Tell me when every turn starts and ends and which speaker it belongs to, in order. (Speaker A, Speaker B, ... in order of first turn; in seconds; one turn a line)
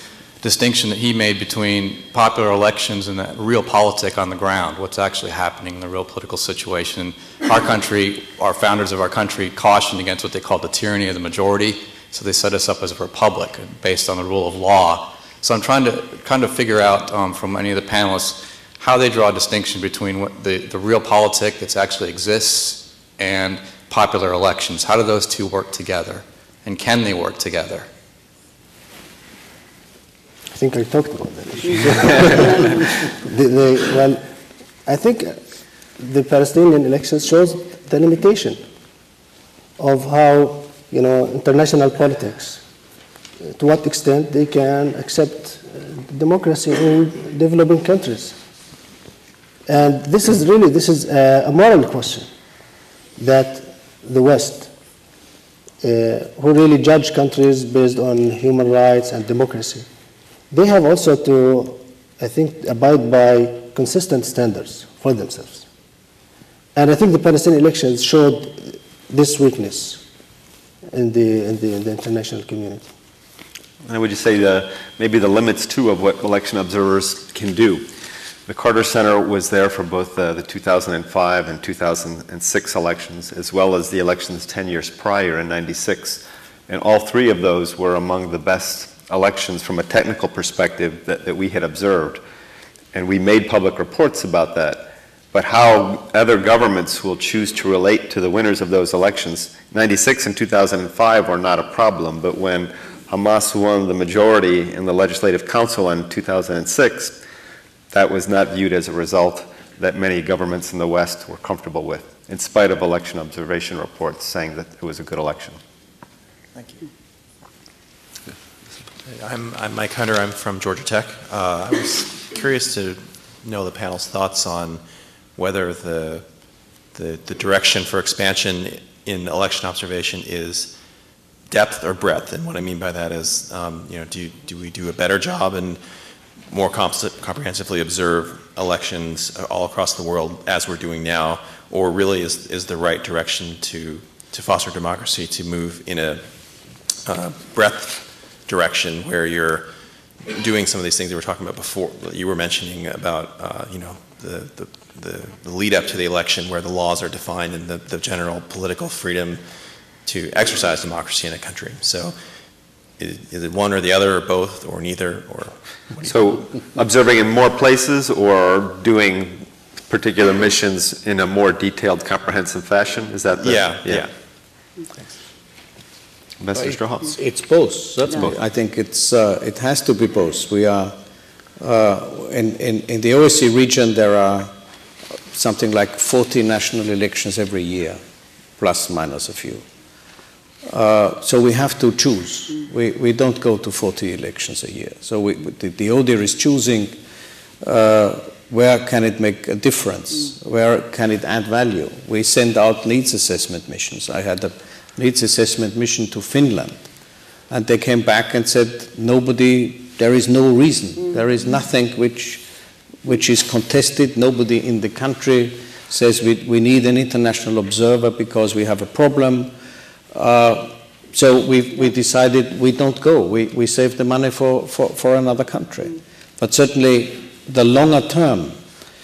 Speaker A: 0.4-27.9
Speaker B: 30.6-34.2
Speaker B: 34.9-35.4
Speaker B: 36.0-38.6
Speaker B: 39.8-42.6
Speaker B: 43.4-48.4
Speaker B: 49.7-52.3
Speaker B: 53.2-54.7
Speaker B: 55.8-59.9
Speaker B: 60.5-65.7
Speaker B: 66.8-70.0
Speaker B: 70.9-72.9
Speaker C: 73.9-77.9
Speaker C: 78.5-92.2
Speaker C: 92.9-107.2
Speaker C: 107.9-115.6
Speaker D: 116.6-116.8
Speaker D: 119.0-124.8
Speaker D: 125.3-126.3
Speaker D: 126.9-130.7
Speaker D: 131.5-135.8
Speaker D: 136.5-146.3
Speaker D: 147.0-149.7
Speaker D: 150.2-159.4
Speaker D: 160.0-162.2
Speaker D: 163.0-165.6
Speaker C: 166.0-174.1
Speaker D: 173.4-174.1
Speaker C: 176.4-177.1
Speaker E: 176.6-180.9
Speaker C: 178.1-178.4
Speaker E: 181.6-184.5
Speaker E: 185.3-188.0
Speaker E: 188.6-189.7
Speaker E: 190.7-197.0
Speaker E: 197.6-206.9
Speaker E: 207.5-212.4
Speaker E: 213.0-219.5
Speaker E: 220.1-228.6